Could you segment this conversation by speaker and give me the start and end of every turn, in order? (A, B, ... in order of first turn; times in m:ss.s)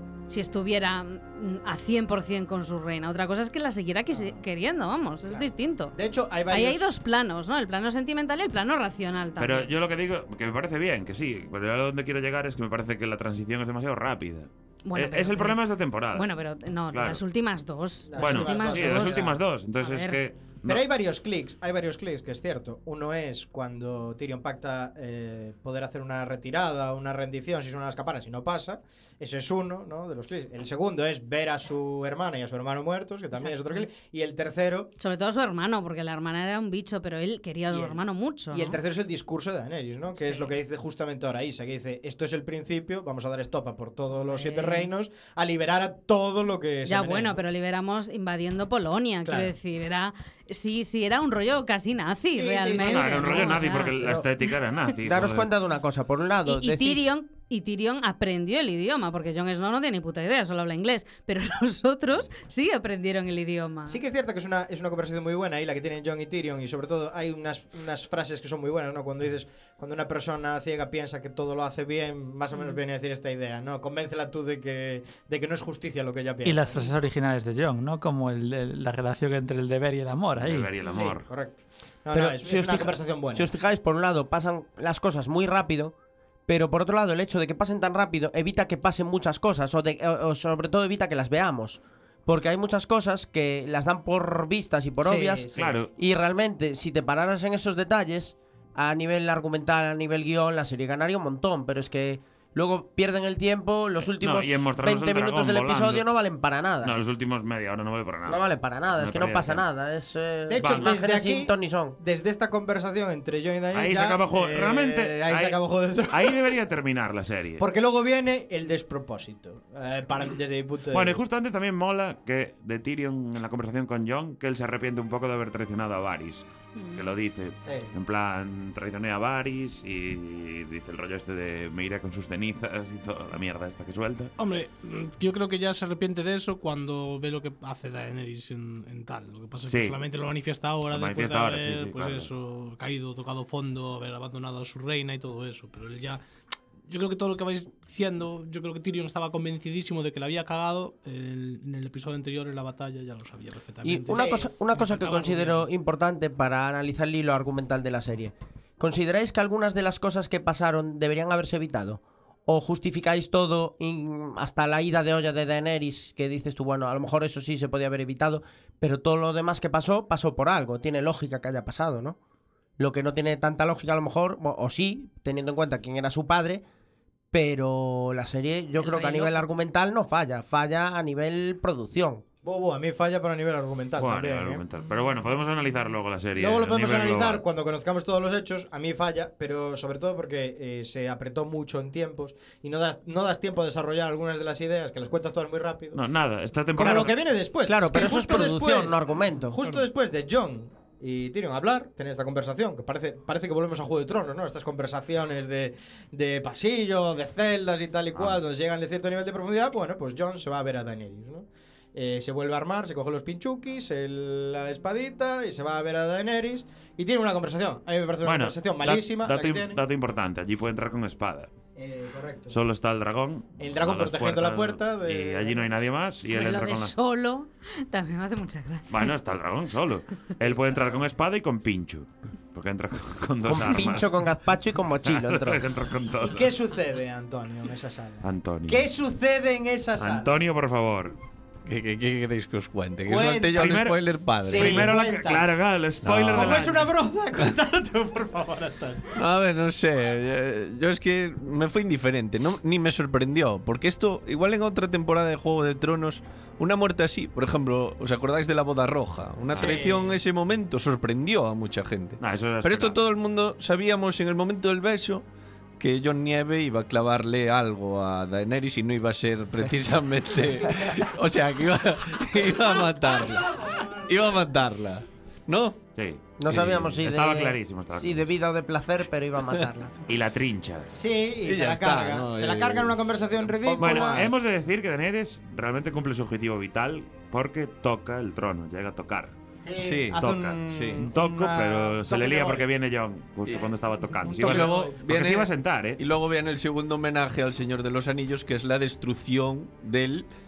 0:00.3-0:05.9 A
0:05.3-0:06.9 B
0:06.5-0:09.7 A
0:09.4-0:16.3 C
0:14.8-0:15.6 A
0:16.1-0:20.2 A
0:16.9-0:17.2 C
0:18.1-0:19.4 B
0:18.2-0:20.8 C
0:20.7-0:34.9 B
0:33.3-0:33.9 A
0:35.0-0:38.8 A
0:37.7-0:47.4 B
0:40.2-0:40.5 A
0:44.3-0:44.9 A
0:46.9-0:54.0 A
0:49.2-0:49.5 B
0:52.3-0:53.9 B
0:52.7-0:55.5 C
0:55.0-0:57.1 D
0:56.4-1:04.0 A
1:03.9-1:16.9 B
1:12.5-1:12.8 A
1:16.4-1:20.7 E
1:20.4-1:21.3 C
1:20.8-1:23.5 B
1:22.1-1:25.9 D
1:26.5-1:47.0 D
1:35.0-1:35.8 B
1:35.6-1:35.9 C
1:44.2-1:46.1 C
1:46.8-1:49.6 C
1:48.3-1:52.0 D
1:50.5-1:56.5 B
1:50.6-1:50.9 C
1:53.7-1:57.6 C
1:57.6-2:01.2 B
2:00.9-2:14.3 C
2:06.8-2:07.0 A
2:07.6-2:07.9 B
2:14.4-2:26.2 F
2:19.6-2:20.0 C
2:20.9-2:22.3 C
2:26.9-2:35.7 F
2:33.8-2:52.2 D
2:34.1-2:34.5 B
2:52.8-2:56.6 D
2:57.3-3:02.2 D
2:58.8-2:59.4 A
3:02.4-3:04.6 B
3:04.0-3:07.4 C
3:06.4-3:16.0 B
3:15.9-3:17.2 C
3:16.7-3:39.8 B
3:16.8-3:17.1 D
3:17.6-3:19.6 D
3:28.1-3:28.4 C
3:38.2-3:41.5 C
3:41.8-3:42.6 B
3:42.5-3:46.9 C
3:43.6-3:45.8 B
3:46.3-3:49.1 A
3:48.9-3:54.1 C
3:53.4-3:55.6 D
3:55.0-3:56.5 C
3:56.2-4:00.3 B
3:58.2-3:58.9 C
4:00.0-4:01.2 C
4:01.6-4:04.9 G
4:03.1-4:03.7 B
4:03.6-4:06.9 C
4:04.4-4:05.4 B
4:06.0-4:06.7 G
4:06.3-4:09.1 B
4:09.1-4:25.2 G
4:19.5-4:19.8 C
4:19.5-4:20.2 B
4:22.2-4:23.0 C
4:25.8-4:35.8 G
4:35.9-4:38.3 C
4:36.4-4:39.9 D
4:40.1-4:40.9 C
4:41.0-4:44.2 B
4:41.4-4:44.4 G
4:43.8-4:49.4 C
4:49.6-4:52.6 B
4:49.7-4:51.1 G
4:50.2-4:56.0 C
4:54.2-4:55.0 B
4:54.3-5:00.2 G